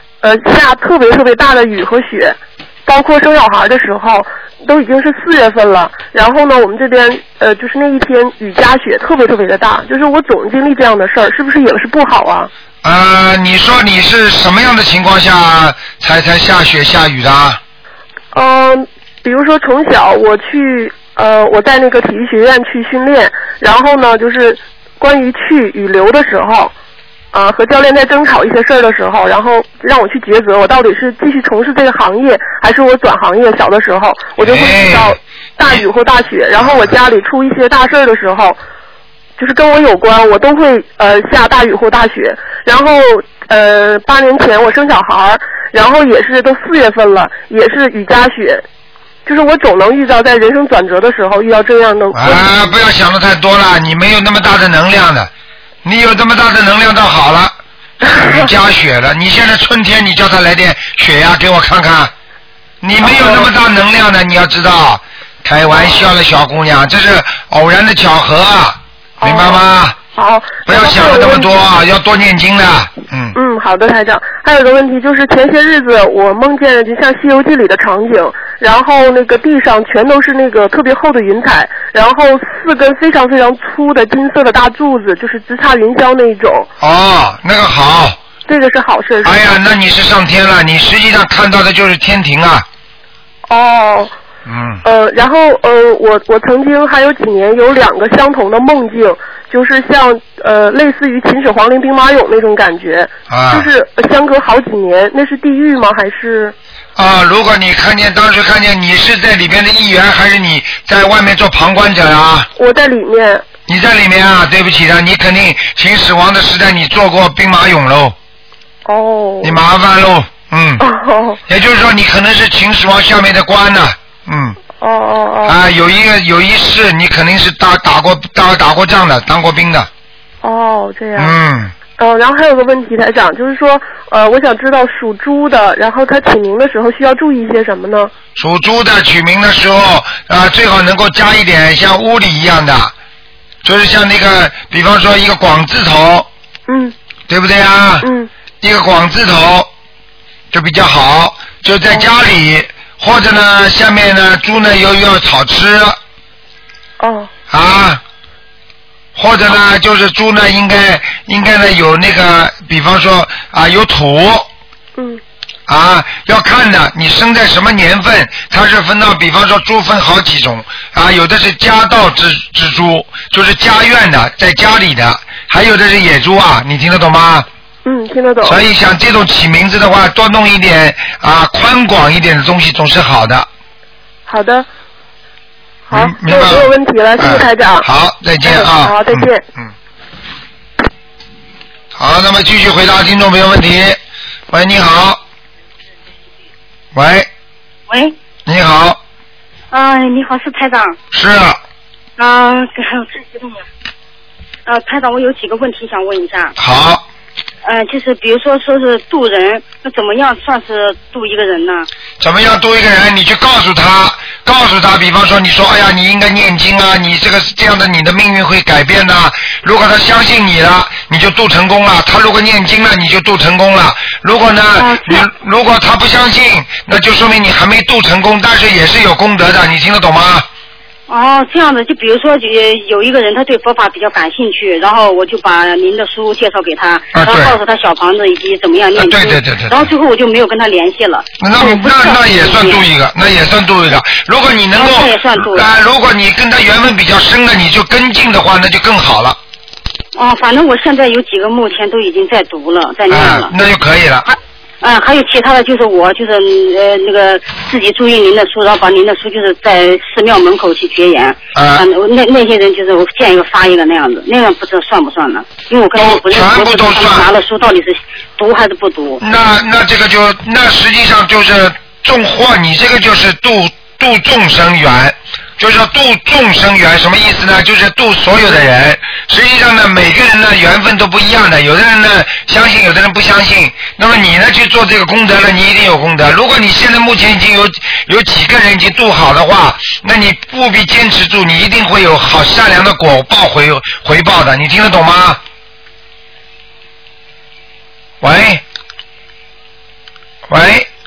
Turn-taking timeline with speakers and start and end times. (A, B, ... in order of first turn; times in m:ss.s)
0:00.2-0:12.5 A
0:12.8-0:17.6 B
0:18.3-0:26.7 A
0:27.3-0:38.6 A
0:34.4-0:35.2 B
0:36.6-0:36.9 B
0:39.4-0:48.6 A
0:49.2-0:52.5 A
0:52.1-0:55.3 B
0:55.8-0:57.5 B
0:58.0-0:58.5 A
0:58.1-1:02.1 B
1:02.8-1:10.0 B
1:03.0-1:03.5 A
1:05.7-1:06.1 A
1:09.2-1:09.6 A
1:10.1-1:11.5 A
1:10.6-1:13.4 B
1:13.4-1:26.7 A
1:26.8-1:28.2 B
1:28.5-1:29.4 A
1:29.2-1:32.6 B
1:33.5-1:34.1 A
1:34.4-1:34.8 B
1:34.8-1:46.5 A
1:43.3-1:43.7 B
1:47.0-1:52.5 B
1:52.6-1:53.4 A
1:53.7-1:58.1 B
1:58.8-1:59.6 A
1:59.4-2:00.8 B
2:00.8-2:01.4 A
2:01.5-2:04.6 B
2:04.8-2:05.5 A
2:05.4-2:09.9 B
2:10.4-2:11.3 A
2:11.1-2:11.7 B
2:12.0-2:18.1 A
2:18.4-2:22.9 B
2:23.6-2:26.3 B
2:26.7-2:26.9 A
2:27.3-2:28.1 B
2:28.0-2:28.3 A
2:28.6-2:29.7 B
2:30.5-2:36.0 B
2:37.0-2:37.3 A
2:37.5-2:38.0 B
2:39.2-2:44.5 B
2:45.7-2:57.5 B
2:57.8-2:58.6 A
2:58.4-3:03.5 B
3:04.3-3:04.6 A
3:05.9-3:07.9 A
3:05.9-3:09.7 B
3:08.4-3:09.4 A
3:12.0-3:14.0 B
3:14.5-3:15.2 B
3:16.9-3:17.3 B
3:17.9-3:18.1 C
3:18.4-3:19.0 B
3:19.7-3:20.9 C
3:21.1-3:21.6 B
3:22.2-3:23.6 C
3:24.6-3:26.5 C
3:26.6-3:27.0 B
3:27.6-3:31.9 C
3:32.2-3:50.4 B
3:44.8-3:45.2 C
3:51.1-4:02.8 C
3:57.1-3:57.6 B
3:59.0-3:59.9 B
4:01.4-4:09.4 B
4:04.7-4:05.7 C
4:10.2-4:13.5 C
4:13.1-4:14.2 B
4:14.3-4:29.2 C
4:21.5-4:21.8 B
4:26.0-4:27.3 B
4:29.2-4:55.4 B
4:58.2-4:58.6 B
5:00.5-5:00.9 B